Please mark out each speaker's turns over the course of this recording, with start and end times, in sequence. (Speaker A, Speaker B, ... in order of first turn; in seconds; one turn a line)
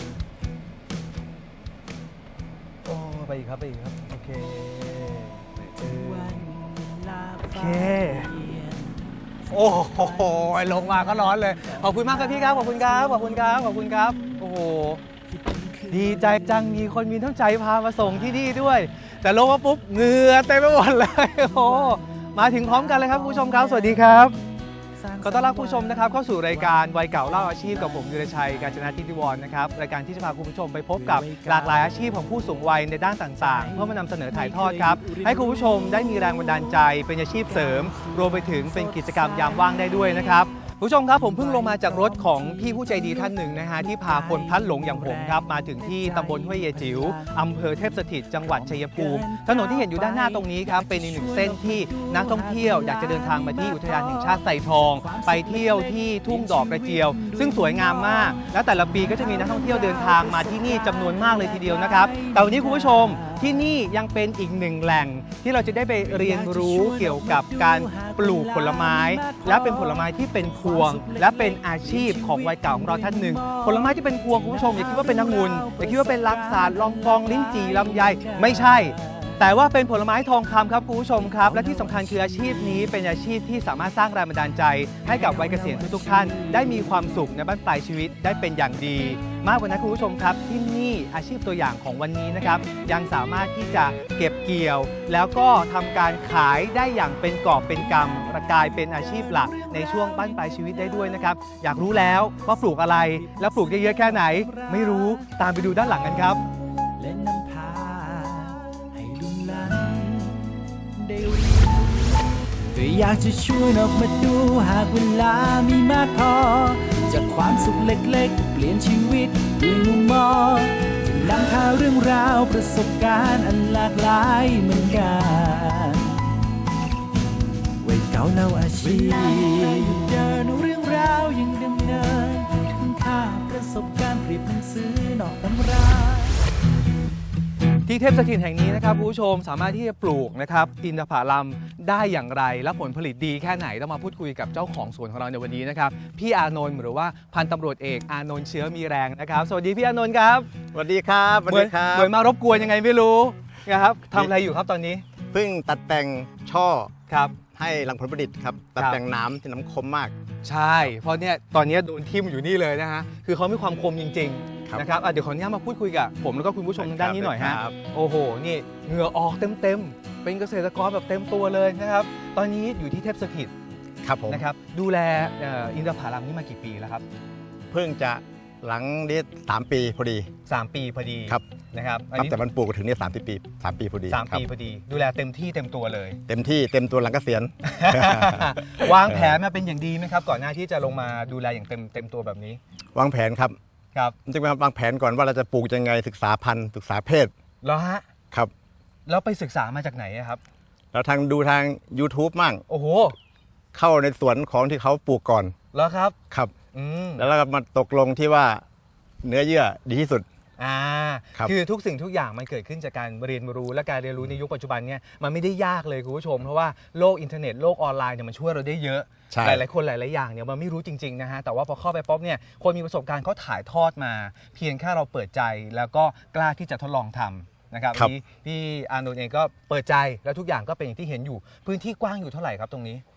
Speaker A: 2.9-6.5
Speaker B: 5.8-14.6
Speaker A: 7.5-8.3
Speaker A: 9.5-15.0
Speaker B: 15.2-16.9
Speaker A: 15.9-24.4
Speaker B: 18.0-18.8
Speaker B: 21.3-29.1
Speaker A: 25.2-106.4
Speaker B: 31.0-32.4
Speaker B: 33.4-40.5
Speaker B: 41.1-63.8
Speaker B: 66.0-79.5
Speaker B: 81.2-82.9
Speaker B: 85.1-87.3
Speaker B: 99.0-101.1
Speaker B: 101.9-126.2
Speaker B: 127.8-136.4
Speaker A: 137.9-150.5
Speaker C: 150.7-152.1
Speaker A: 151.5-155.1
Speaker C: 155.3-156.9
Speaker A: 157.1-157.4
Speaker C: 157.5-160.2
Speaker A: 160.4-173.5
Speaker C: 166.8-167.8
Speaker C: 174.0-174.4
Speaker A: 174.3-177.1
Speaker C: 177.7-180.3
Speaker A: 180.5-182.4
Speaker C: 182.1-184.4
Speaker A: 184.1-186.2
Speaker C: 186.3-189.4
Speaker A: 187.6-192.6
Speaker C: 192.9-193.6
Speaker C: 194.3-197.3
Speaker A: 197.6-198.1
Speaker A: 199.1-200.4
Speaker C: 200.9-202.6
Speaker A: 202.7-203.2
Speaker C: 203.7-205.6
Speaker A: 205.7-206.2
Speaker A: 206.7-207.2
Speaker C: 207.2-208.6
Speaker C: 209.2-210.3
Speaker A: 210.6-233.0
Speaker C: 219.3-219.7